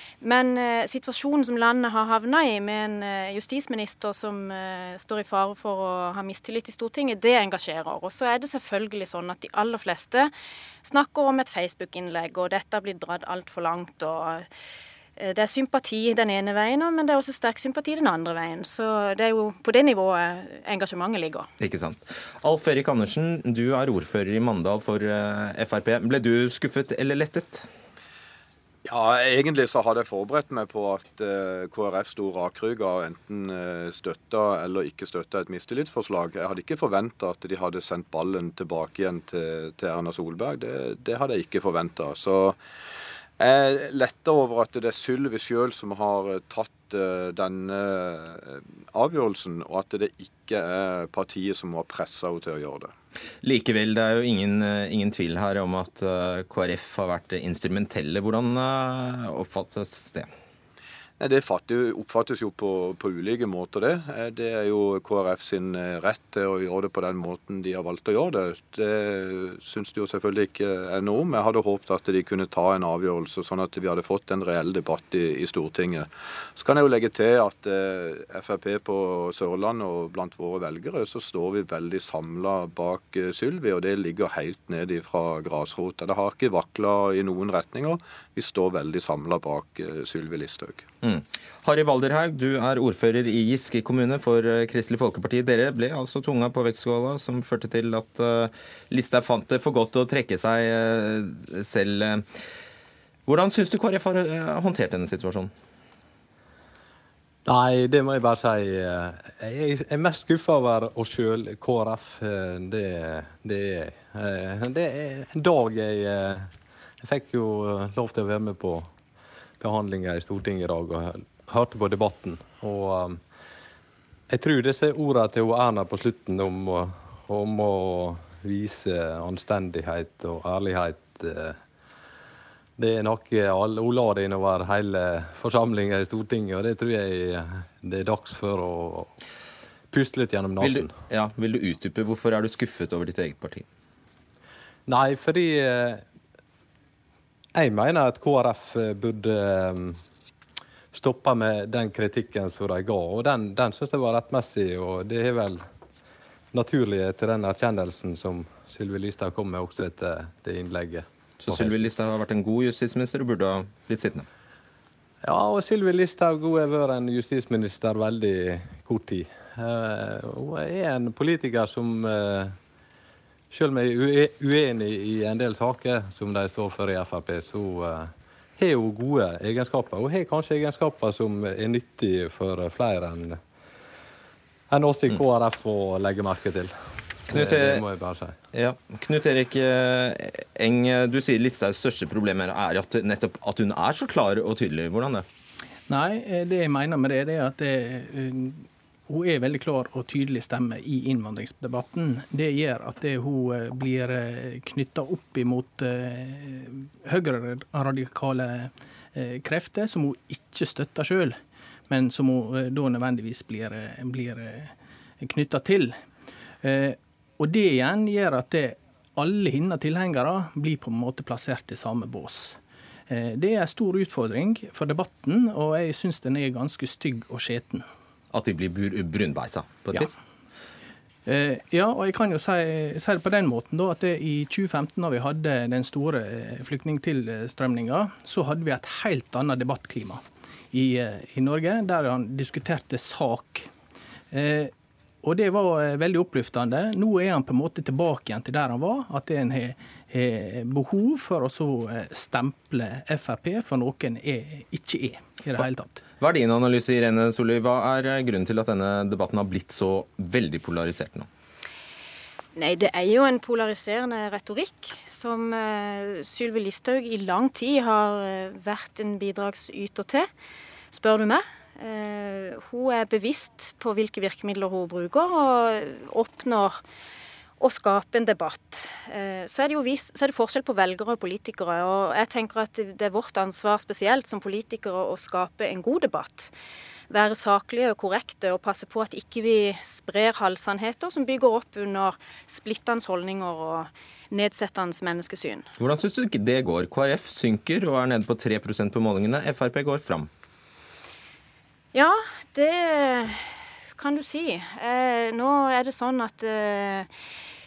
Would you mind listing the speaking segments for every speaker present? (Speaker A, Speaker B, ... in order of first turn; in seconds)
Speaker A: 0.2-10.3, 10.8-14.5, 15.2-21.5, 262.6-270.3, 270.9-276.8, 277.6-286.5, 287.1-295.7, 301.9-307.1
Speaker B: 21.6-27.7, 53.4-60.3, 91.0-102.3, 103.3-105.5, 140.6-143.7, 161.4-164.3, 187.3-187.8, 188.5-195.2, 228.3-230.2, 256.2-261.3, 295.8-300.3
Speaker C: 28.9-42.6, 43.4-52.9, 61.2-90.8
Speaker D: 107.5-116.5, 117.0-118.9, 119.6-123.2, 124.3-131.6, 132.8-139.2, 139.9-140.9, 144.9-146.0, 147.6-150.0, 150.9-155.7, 156.5-161.9, 165.2-172.6, 173.5-183.4, 184.7-186.8, 187.3-188.4
Speaker E: 195.9-216.0, 216.6-222.6, 223.1-227.9, 231.3-243.7, 244.3-244.7, 245.2-256.0